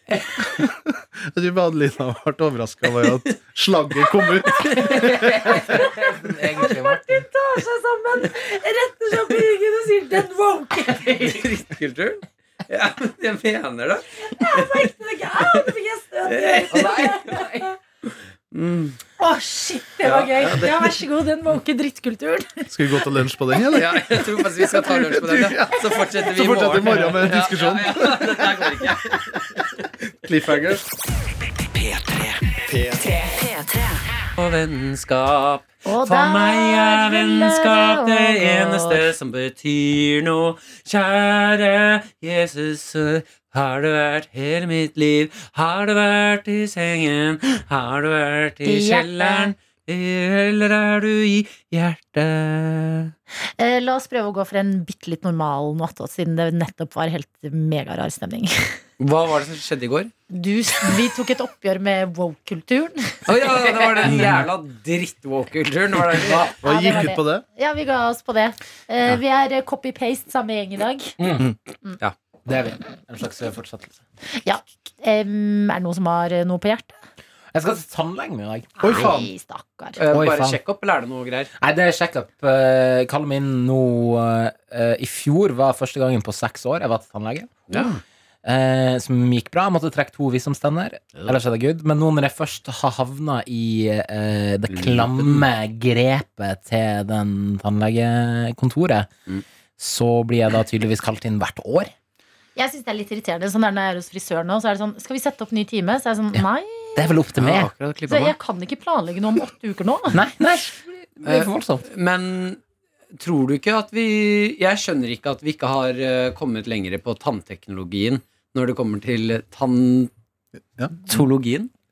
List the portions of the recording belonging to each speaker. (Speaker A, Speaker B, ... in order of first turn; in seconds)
Speaker A: 0.5-5.4, 22.7-29.4, 30.2-30.8, 66.6-67.4, 78.8-79.3
Speaker B: 5.0-7.2, 16.7-17.7, 66.1-66.5, 71.2-71.5, 72.5-74.0, 77.5-78.7, 80.1-80.6, 81.6-87.8, 88.5-99.1, 99.8-101.9, 107.0-107.7, 110.1-111.8
Speaker C: 5.6-11.4, 14.2-17.6, 19.2-22.7, 35.9-39.0, 48.6-49.5, 53.6-58.8, 60.3-63.2, 66.6-71.1, 74.4-76.9, 78.8-80.0, 102.6-107.1, 108.1-110.2
Speaker D: 11.2-15.7, 16.3-17.2, 18.5-19.0, 20.0-21.0, 23.7-29.4, 31.6-53.1, 59.0-60.1, 63.3-66.5, 80.0-81.5, 87.7-88.0, 94.7-95.5, 107.4-108.3, 111.2-112.6, 113.2-120.1, 121.0-121.7